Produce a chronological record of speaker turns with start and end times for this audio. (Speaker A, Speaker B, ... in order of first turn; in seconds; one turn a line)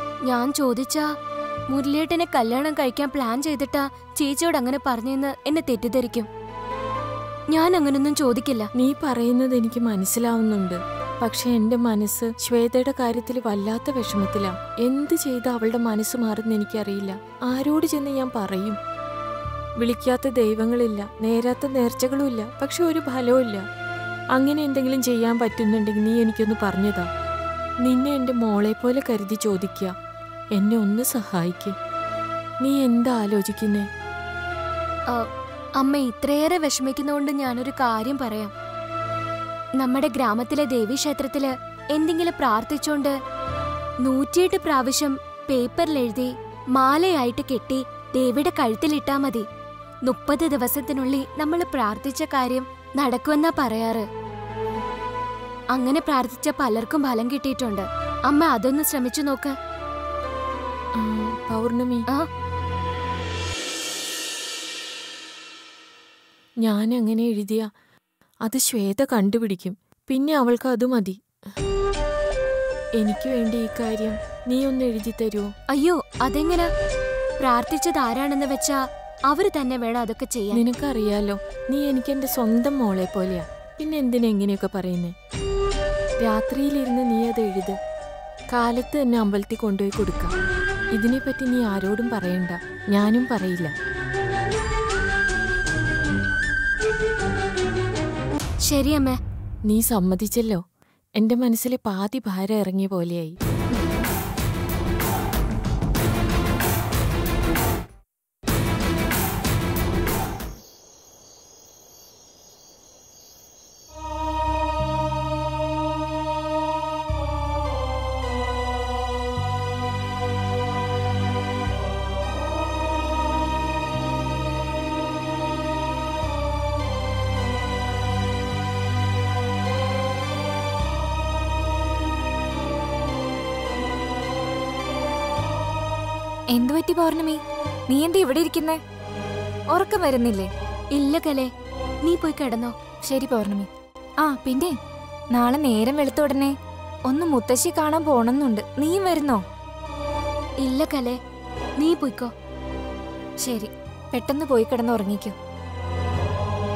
Speaker A: 0.2-1.1
Speaker A: 1.7-6.3
Speaker A: 7.5-8.7
Speaker B: 8.7-18.8
Speaker B: 19.8-23.6
Speaker B: 24.3-27.1
Speaker B: 27.8-29.9
Speaker B: 30.5-31.7
Speaker B: 32.6-33.9
Speaker A: 35.8-38.5
Speaker A: 39.8-43.1
Speaker A: 44.0-49.4
Speaker A: 50.0-54.0
Speaker A: 55.7-59.5
Speaker B: 61.0-62.0
Speaker B: 66.6-67.7
Speaker B: 68.4-71.2
Speaker B: 73.0-75.5
Speaker A: 75.7-76.7
Speaker A: 77.4-78.8
Speaker A: 79.3-80.6
Speaker B: 80.5-85.1
Speaker B: 86.2-87.8
Speaker B: 88.5-90.3
Speaker B: 91.0-93.7
Speaker A: 98.7-99.2
Speaker B: 99.7-100.6
Speaker B: 101.2-103.3
Speaker C: 136.5-138.8
Speaker C: 139.7-140.5
Speaker A: 140.9-141.5
Speaker A: 142.0-142.8
Speaker C: 143.0-143.7
Speaker C: 144.2-144.7
Speaker C: 145.3-146.5
Speaker C: 147.1-149.4
Speaker A: 150.6-151.2
Speaker A: 151.8-152.3
Speaker C: 153.4-155.3